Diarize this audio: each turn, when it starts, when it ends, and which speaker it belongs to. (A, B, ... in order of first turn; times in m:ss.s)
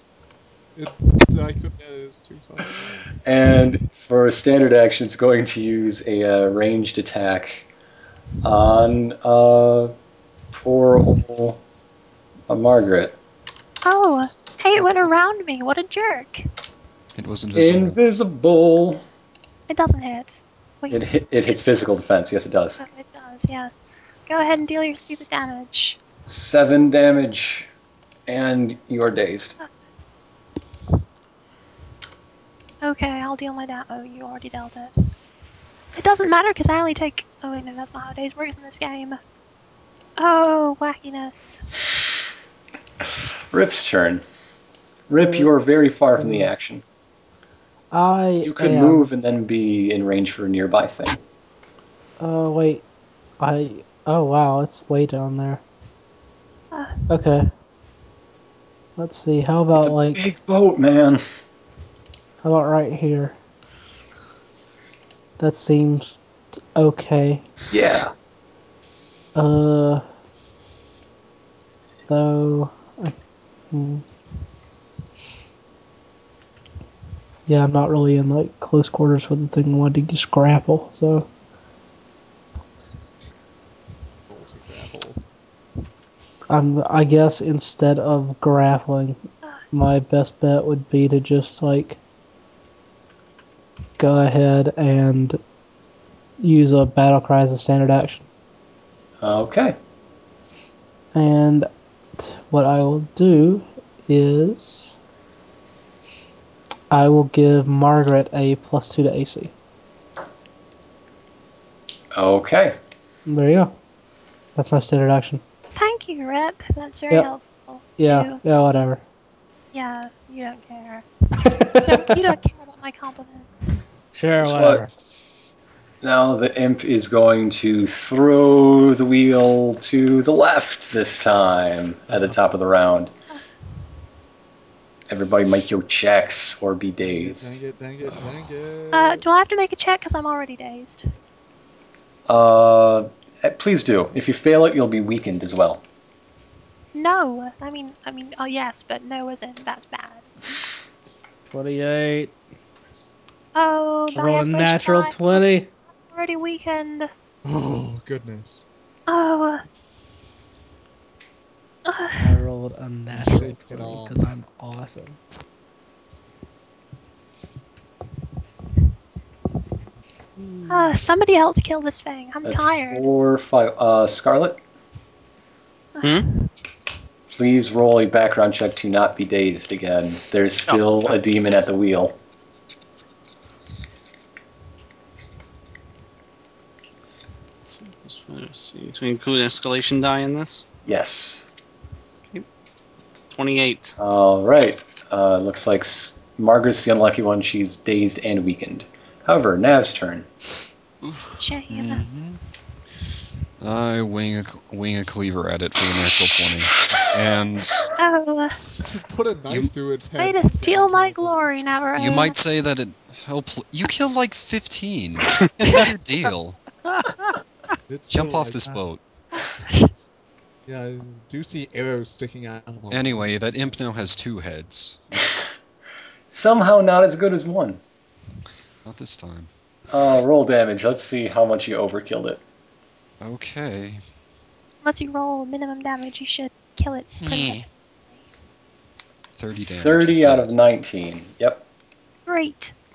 0:00.7-0:03.0 A
0:03.2-0:07.7 B
0:08.4-0:09.9 B
0:10.5-0:11.6 B
0:12.5-0:13.2 B
0:13.8-0:16.4 C
0:14.7-0:15.1 A
0:17.1-0:18.0 D
0:17.5-0:19.0 B
0:19.7-0:21.0 C
0:20.9-0:22.8 B
0:22.8-0:26.0 C
0:26.2-0:27.7 B
0:28.3-0:29.6 B
0:32.8-0:35.0 C
0:35.9-0:39.2 C
0:40.2-0:41.6 C
0:43.5-0:44.2 B
0:45.1-0:46.8 B
0:45.2-0:45.5 E
0:46.2-0:46.5 E
0:47.9-0:49.1 E
0:48.4-0:51.2 B
0:52.2-0:52.8 E
0:53.4-0:55.6 E
0:56.7-0:57.0 C
0:57.1-0:57.5 E
0:59.0-1:00.2 E
0:59.8-1:01.2 B
1:02.4-1:03.4 E
1:05.4-1:06.2 E
1:06.7-1:07.4 E
1:07.7-1:08.1 B
1:09.3-1:10.0 E
1:12.1-1:13.1 E
1:13.7-1:14.0 E
1:17.5-1:21.3 E
1:24.3-1:25.2 A
1:26.5-1:32.0 E
1:34.0-1:35.4 E
1:36.4-1:38.2 E
1:39.2-1:39.8 B
1:41.1-1:44.9 E
1:46.9-1:49.5 E
1:52.1-1:52.8 B
1:53.3-1:53.7 E
1:54.5-1:55.4 E
1:55.8-1:58.4 C
1:58.0-1:59.0 E
1:59.7-2:01.0 C
2:01.4-2:02.1 E
2:01.8-2:03.8 C
2:04.1-2:04.9 E
2:04.4-2:04.8 B
2:06.0-2:13.1 B
2:15.1-2:17.6 B
2:17.0-2:19.2 A
2:18.9-2:21.0 C
2:22.3-2:25.8 B
2:26.9-2:30.2 C
2:31.5-2:32.3 E
2:33.5-2:35.4 C
2:34.1-2:35.7 E
2:36.0-2:37.1 C
2:37.4-2:38.6 A
2:39.1-2:39.6 C
2:41.8-2:42.3 C
2:42.2-2:45.2 E
2:43.1-2:44.2 A
2:50.7-2:53.0 C
2:52.4-2:54.6 B
2:56.0-2:56.3 C
2:56.0-2:56.3 F
2:57.3-3:02.1 B
3:07.8-3:10.6 F
3:10.8-3:11.4 B
3:13.3-3:14.0 F
3:14.0-3:20.3 B
3:21.0-3:22.4 D
3:21.4-3:22.0 C
3:23.6-3:27.9 D
3:28.0-3:28.6 C
3:28.7-3:31.4 A
3:30.2-3:32.4 C
3:32.0-3:36.6 D
3:37.9-3:38.8 A
3:38.1-3:39.0 D
3:40.6-3:43.8 A
3:42.9-3:45.0 D
3:46.3-3:47.8 B
3:48.8-3:49.5 D
3:49.9-3:52.4 B
3:53.2-3:54.0 D
3:54.8-3:57.7 C
3:57.2-3:57.6 D
3:59.3-4:00.5 D
3:59.8-4:01.6 B
4:02.2-4:02.7 C